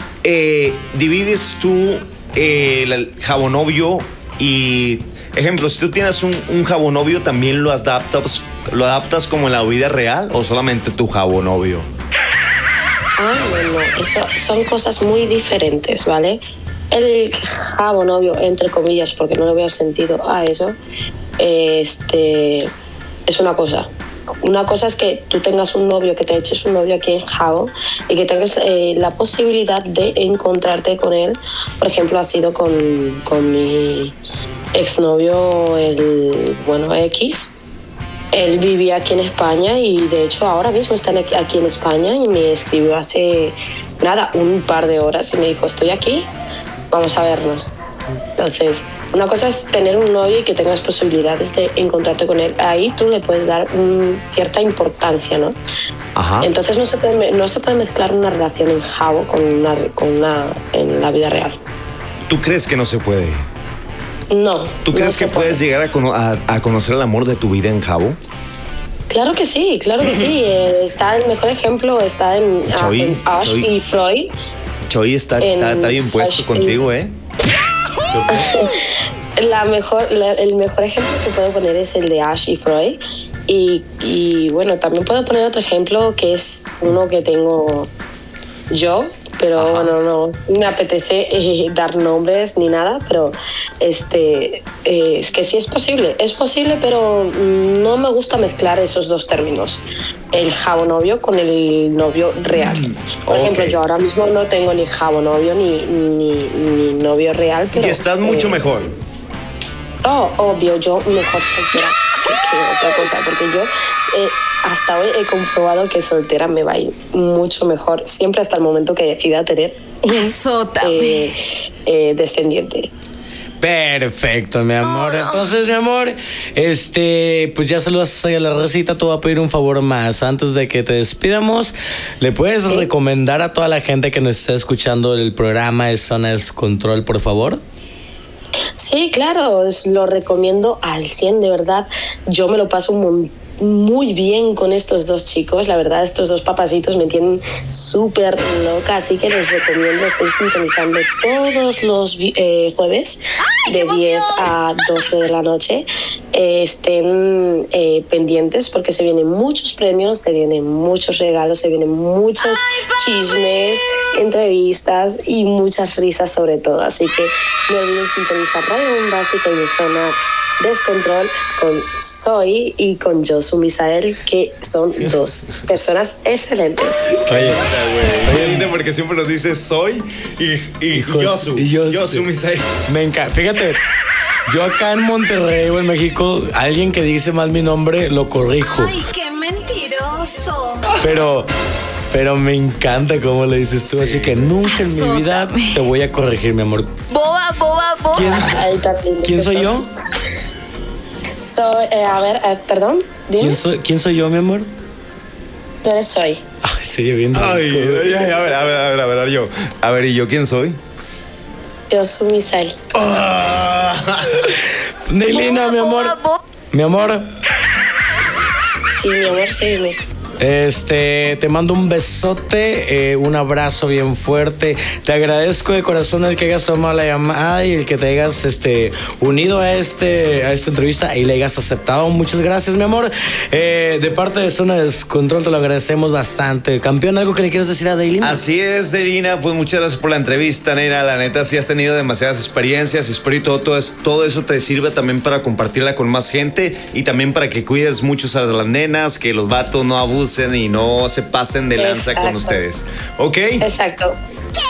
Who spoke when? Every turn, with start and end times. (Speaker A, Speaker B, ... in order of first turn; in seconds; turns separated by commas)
Speaker A: 0.2-11.9, Speaker B: 13.2-20.8, Speaker B: 21.4-22.7, Speaker B: 23.3-23.9, Speaker B: 24.4-34.2, Speaker B: 34.7-37.5, Speaker B: 38.3-46.3, Speaker B: 46.9-47.7, Speaker B: 48.4-55.6, Speaker A: 56.1-56.5, Speaker B: 56.4-61.6, Speaker A: 62.3-63.5, Speaker B: 64.3-65.6, Speaker A: 64.9-68.2, Speaker B: 69.1-74.3, Speaker A: 72.7-73.7, Speaker A: 74.9-77.2, Speaker B: 75.4-76.9, Speaker C: 78.1-78.7, Speaker B: 78.3-87.9, Speaker B: 88.7-108.6, Speaker A: 89.6-90.0, Speaker A: 102.5-103.8, Speaker A: 107.7-109.0, Speaker B: 110.0-122.9, Speaker D: 120.1-121.3, Speaker C: 123.6-137.6, Speaker D: 124.8-125.5, Speaker B: 138.8-177.1, Speaker A: 177.1-182.8, Speaker C: 177.3-177.7, Speaker C: 178.2-178.7, Speaker C: 180.9-182.3, Speaker C: 182.9-183.8, Speaker C: 184.5-189.0, Speaker D: 188.7-191.0, Speaker C: 191.0-191.5, Speaker C: 192.1-196.9, Speaker A: 193.9-194.5, Speaker D: 194.6-195.8, Speaker D: 197.1-198.5, Speaker C: 198.1-198.6, Speaker B: 198.2-199.8, Speaker C: 199.2-199.9, Speaker B: 201.4-203.6, Speaker C: 203.4-204.7, Speaker B: 205.8-206.4, Speaker C: 206.6-208.3, Speaker A: 207.3-210.8, Speaker B: 211.9-212.8, Speaker A: 212.9-214.5, Speaker C: 214.5-216.2, Speaker D: 215.3-216.4, Speaker C: 216.7-217.3, Speaker B: 218.9-220.0, Speaker C: 220.4-238.4, Speaker A: 238.2-253.7, Speaker B: 251.8-252.6, Speaker B: 253.6-254.2